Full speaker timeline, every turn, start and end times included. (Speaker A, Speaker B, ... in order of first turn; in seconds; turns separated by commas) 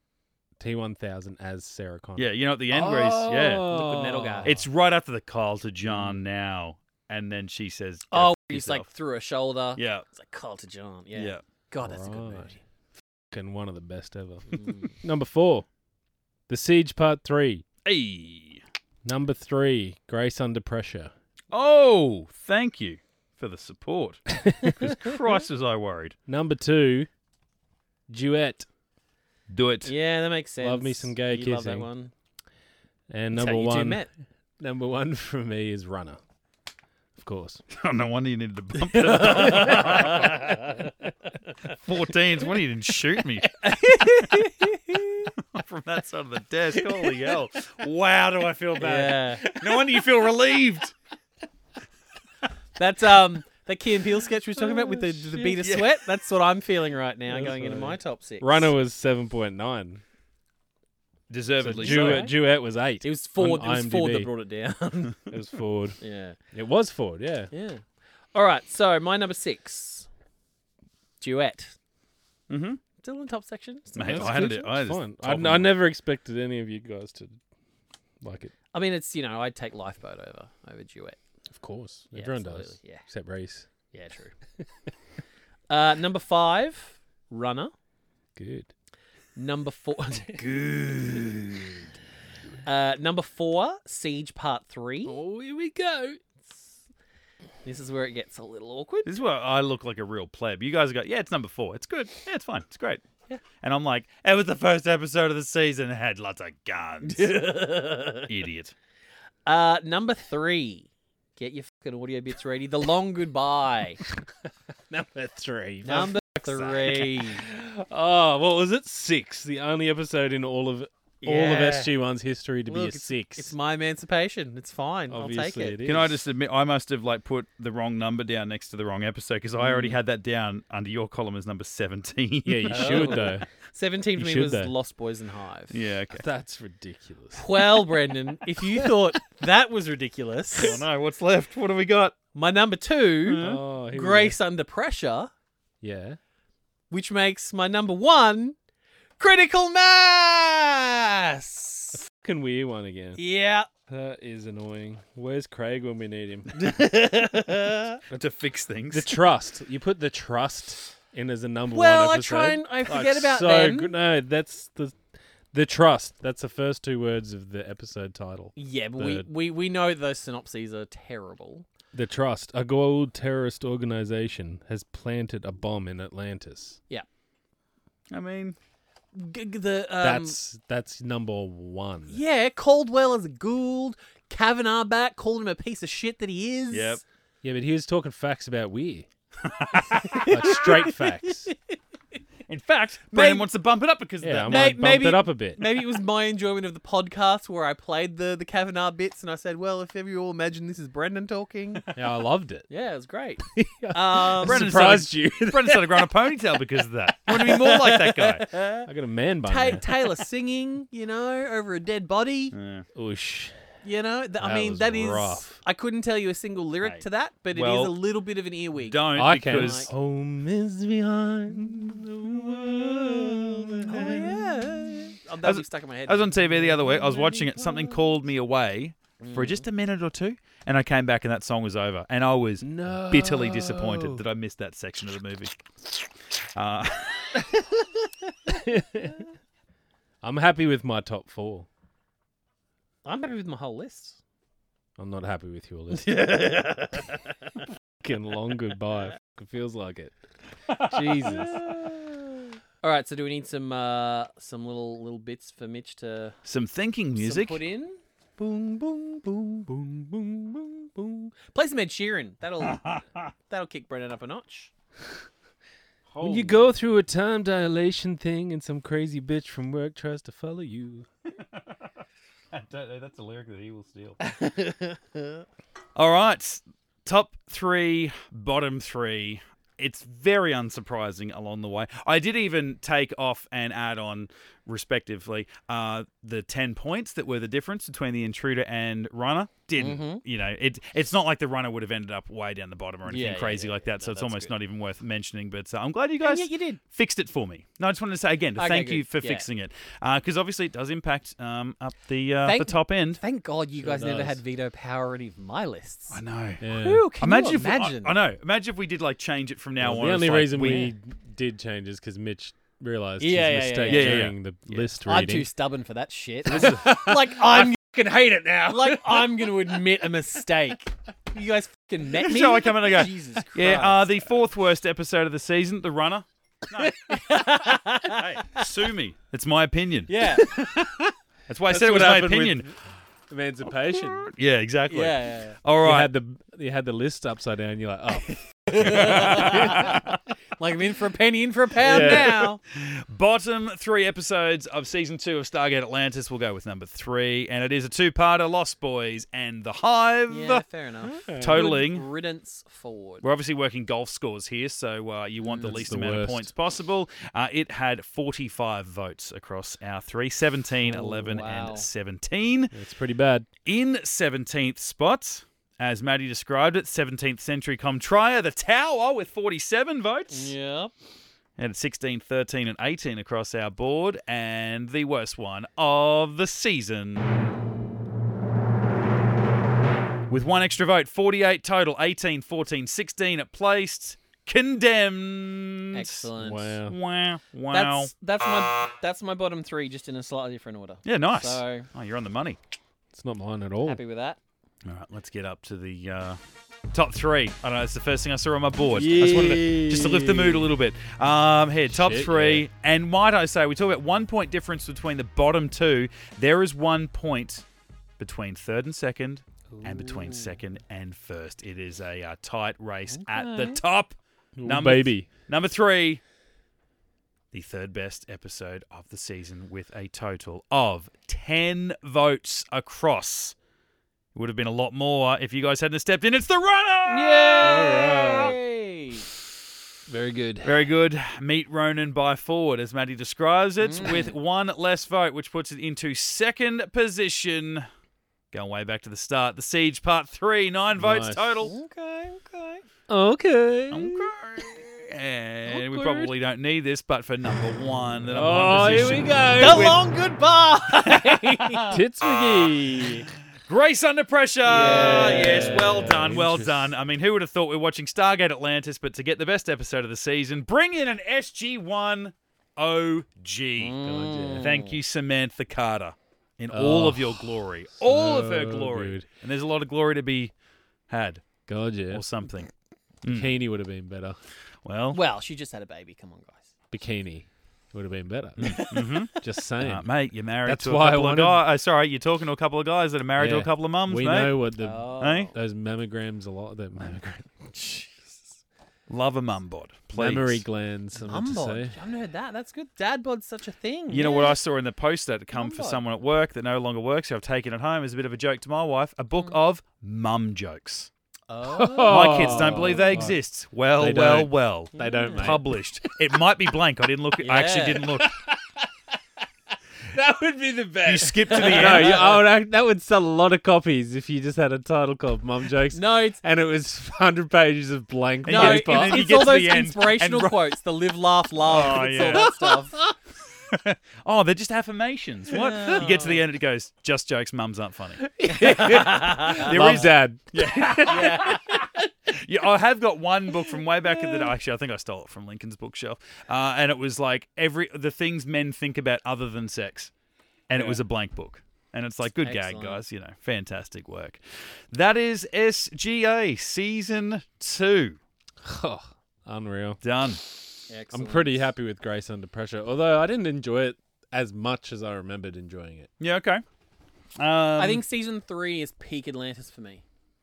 Speaker A: 0.6-4.6, Speaker B: 2.2-3.7, Speaker C: 3.7-4.6, Speaker B: 4.5-8.9, Speaker C: 5.9-6.2, Speaker C: 8.1-12.6, Speaker B: 9.8-10.1, Speaker B: 11.2-11.4, Speaker A: 11.8-12.5, Speaker A: 13.3-15.7, Speaker C: 14.5-14.9, Speaker A: 16.5-17.6, Speaker B: 17.9-18.6, Speaker A: 19.1-21.1, Speaker B: 21.5-24.3, Speaker A: 24.4-25.2, Speaker B: 24.8-26.1, Speaker A: 26.3-27.1, Speaker A: 28.1-28.7, Speaker B: 29.5-29.9, Speaker C: 29.9-32.1, Speaker A: 30.6-31.9, Speaker A: 33.1-34.1, Speaker C: 33.3-34.1, Speaker A: 34.6-36.2, Speaker A: 37.2-37.6, Speaker B: 37.7-40.4, Speaker C: 38.9-40.9, Speaker B: 41.7-43.5, Speaker C: 43.6-45.3, Speaker B: 45.5-50.9, Speaker C: 48.8-49.4, Speaker A: 49.5-50.1, Speaker C: 52.8-58.7, Speaker A: 54.6-55.6, Speaker B: 55.6-56.0, Speaker A: 57.3-60.0, Speaker B: 61.3-62.3, Speaker A: 61.6-64.3, Speaker C: 61.8-62.4, Speaker C: 63.0-65.3, Speaker A: 65.3-66.0, Speaker C: 66.0-66.4, Speaker A: 66.5-67.5, Speaker C: 67.5-70.1, Speaker C: 71.2-71.8, Speaker B: 72.5-72.8, Speaker C: 73.0-74.5, Speaker B: 74.0-75.7, Speaker A: 74.0-77.4, Speaker A: 78.2-78.5, Speaker C: 78.7-81.2, Speaker A: 81.5-83.7, Speaker C: 82.1-83.0, Speaker C: 83.9-84.3, Speaker C: 85.7-87.7, Speaker A: 88.4-88.7, Speaker C: 89.4-90.7, Speaker B: 90.4-91.8, Speaker C: 92.6-95.2, Speaker A: 95.0-96.4, Speaker C: 97.7-99.1, Speaker B: 99.1-103.0, Speaker B: 103.6-107.6, Speaker C: 107.0-108.3, Speaker B: 108.1-108.7, Speaker C: 109.5-114.0, Speaker A: 114.9-123.5, Speaker C: 115.8-117.5, Speaker C: 121.2-121.9, Speaker C: 122.7-125.8, Speaker A: 125.1-126.2, Speaker B: 125.8-133.3, Speaker A: 132.4-133.5, Speaker C: 132.7-135.7, Speaker A: 134.2-134.7, Speaker B: 135.7-136.3, Speaker A: 136.1-138.0, Speaker C: 137.3-140.8, Speaker A: 138.6-139.0, Speaker B: 140.6-142.2, Speaker C: 142.3-145.3, Speaker B: 143.3-143.6, Speaker A: 143.4-144.4, Speaker A: 145.8-146.2, Speaker C: 146.9-148.6, Speaker C: 149.2-152.0, Speaker A: 152.1-153.2, Speaker C: 153.2-153.7, Speaker A: 153.9-156.6, Speaker C: 156.5-158.0, Speaker B: 158.1-159.1, Speaker A: 158.9-165.0, Speaker C: 161.7-163.9, Speaker A: 165.5-169.3, Speaker C: 168.6-171.7, Speaker A: 171.9-176.8, Speaker B: 178.1-178.6, Speaker C: 179.1-180.4, Speaker A: 180.0-182.2, Speaker C: 182.1-187.0, Speaker B: 186.7-187.0, Speaker A: 187.4-189.1, Speaker B: 189.4-190.7, Speaker C: 189.9-191.6, Speaker A: 190.1-191.5, Speaker B: 192.5-195.0, Speaker C: 193.1-193.4, Speaker A: 194.2-195.7, Speaker C: 194.5-201.9, Speaker A: 201.9-202.7, Speaker C: 202.7-204.6, Speaker A: 203.5-206.1, Speaker B: 204.4-208.5, Speaker C: 207.3-208.9, Speaker A: 208.8-209.9, Speaker C: 209.5-212.6, Speaker B: 212.5-212.9, Speaker A: 212.9-213.6, Speaker C: 213.8-219.9, Speaker A: 214.4-215.6, Speaker B: 216.8-218.0, Speaker B: 218.9-219.9, Speaker A: 219.2-225.1, Speaker C: 223.9-227.8, Speaker B: 225.4-235.6, Speaker C: 229.2-229.7, Speaker A: 232.6-234.2, Speaker B: 236.6-237.5, Speaker A: 238.5-239.3, Speaker A: 240.2-241.7, Speaker C: 243.1-244.2, Speaker A: 245.0-246.7, Speaker C: 245.9-247.2, Speaker A: 248.0-250.2, Speaker B: 250.7-251.5, Speaker A: 250.8-251.6, Speaker C: 251.1-256.4, Speaker B: 256.5-257.6, Speaker C: 257.2-262.8, Speaker B: 262.6-263.3, Speaker C: 263.5-264.7, Speaker B: 266.1-266.7, Speaker A: 266.2-271.1, Speaker B: 272.5-274.2, Speaker C: 274.3-275.0, Speaker B: 276.0-303.2, Speaker C: 289.8-290.2, Speaker C: 293.1-294.5, Speaker C: 296.2-296.8, Speaker C: 298.6-299.5, Speaker C: 302.4-308.1, Speaker A: 303.8-304.4, Speaker B: 306.1-306.7, Speaker A: 306.6-307.1, Speaker B: 307.2-310.9, Speaker A: 309.8-315.5, Speaker C: 313.2-314.2, Speaker B: 313.9-314.9, Speaker C: 315.0-317.8, Speaker B: 316.5-316.9, Speaker A: 316.5-319.8, Speaker C: 318.7-324.3, Speaker B: 322.2-327.2, Speaker C: 326.8-328.6, Speaker B: 328.0-332.7, Speaker C: 330.1-330.5, Speaker A: 331.7-332.8, Speaker A: 333.3-334.3, Speaker B: 334.0-336.1, Speaker C: 334.9-335.6, Speaker A: 335.8-340.0, Speaker C: 338.7-342.6, Speaker B: 338.8-340.0, Speaker A: 341.8-342.5, Speaker B: 342.0-350.6, Speaker C: 350.3-353.2, Speaker A: 351.0-351.6, Speaker B: 351.4-352.1, Speaker B: 353.2-362.7, Speaker C: 355.4-355.8, Speaker A: 355.6-356.5, Speaker C: 360.9-361.9, Speaker A: 362.7-363.5, Speaker B: 363.7-370.5, Speaker C: 370.3-370.9, Speaker B: 371.6-377.3, Speaker B: 380.3-386.3, Speaker C: 385.9-386.8, Speaker A: 386.4-387.0, Speaker B: 386.9-388.1, Speaker C: 387.7-391.9, Speaker B: 391.1-392.6, Speaker A: 393.1-394.0, Speaker C: 393.9-394.4, Speaker B: 394.9-396.4, Speaker B: 396.9-407.6, Speaker A: 398.9-400.7, Speaker A: 401.9-402.7, Speaker B: 408.2-416.2, Speaker C: 409.8-410.6, Speaker C: 413.1-413.8, Speaker A: 414.6-415.3, Speaker B: 417.5-423.6, Speaker B: 424.4-428.2, Speaker C: 427.1-429.3, Speaker A: 427.6-428.6, Speaker C: 430.1-430.7, Speaker B: 430.6-437.9, Speaker C: 433.8-434.4, Speaker B: 438.5-441.8, Speaker A: 441.0-441.6, Speaker C: 441.6-442.8, Speaker A: 443.1-444.3, Speaker B: 443.9-450.0, Speaker A: 445.7-446.3, Speaker A: 448.3-450.0, Speaker C: 449.6-451.9, Speaker B: 451.0-464.0, Speaker A: 451.9-453.3, Speaker C: 454.7-456.1, Speaker A: 454.7-456.9, Speaker C: 463.8-465.0, Speaker A: 464.0-464.7, Speaker B: 464.6-470.5, Speaker A: 466.7-469.3, Speaker B: 471.1-471.6, Speaker A: 471.7-472.2, Speaker B: 472.1-472.7, Speaker B: 473.2-473.6, Speaker A: 473.3-474.4, Speaker B: 474.9-475.2, Speaker C: 475.1-476.7, Speaker A: 476.9-480.1, Speaker B: 478.6-484.7, Speaker C: 478.6-479.2, Speaker A: 480.6-481.6, Speaker A: 483.4-487.5, Speaker C: 484.8-485.6, Speaker B: 485.2-485.5, Speaker C: 487.7-488.6, Speaker B: 489.1-490.6, Speaker A: 490.1-492.0, Speaker C: 491.2-494.6, Speaker B: 494.1-501.1, Speaker C: 495.5-496.0, Speaker C: 501.5-503.3, Speaker A: 501.6-503.4, Speaker B: 502.1-508.4, Speaker A: 504.0-506.4, Speaker C: 504.9-505.6, Speaker C: 507.4-508.1, Speaker A: 508.1-509.2, Speaker A: 510.1-519.4, Speaker B: 511.0-512.4, Speaker C: 511.5-512.4, Speaker C: 515.9-516.4, Speaker B: 518.4-520.6, Speaker C: 518.5-523.0, Speaker B: 521.6-522.6, Speaker B: 523.7-528.3, Speaker C: 525.5-526.4, Speaker A: 528.2-531.5, Speaker C: 528.5-530.1, Speaker B: 528.9-540.1, Speaker C: 531.0-531.8, Speaker B: 540.7-544.4, Speaker A: 540.7-541.0, Speaker C: 542.4-543.0, Speaker B: 544.9-548.2, Speaker A: 548.6-550.0, Speaker B: 550.0-550.4, Speaker C: 550.9-551.7, Speaker A: 551.1-556.1, Speaker B: 556.2-556.6, Speaker B: 557.4-558.0, Speaker C: 557.8-560.0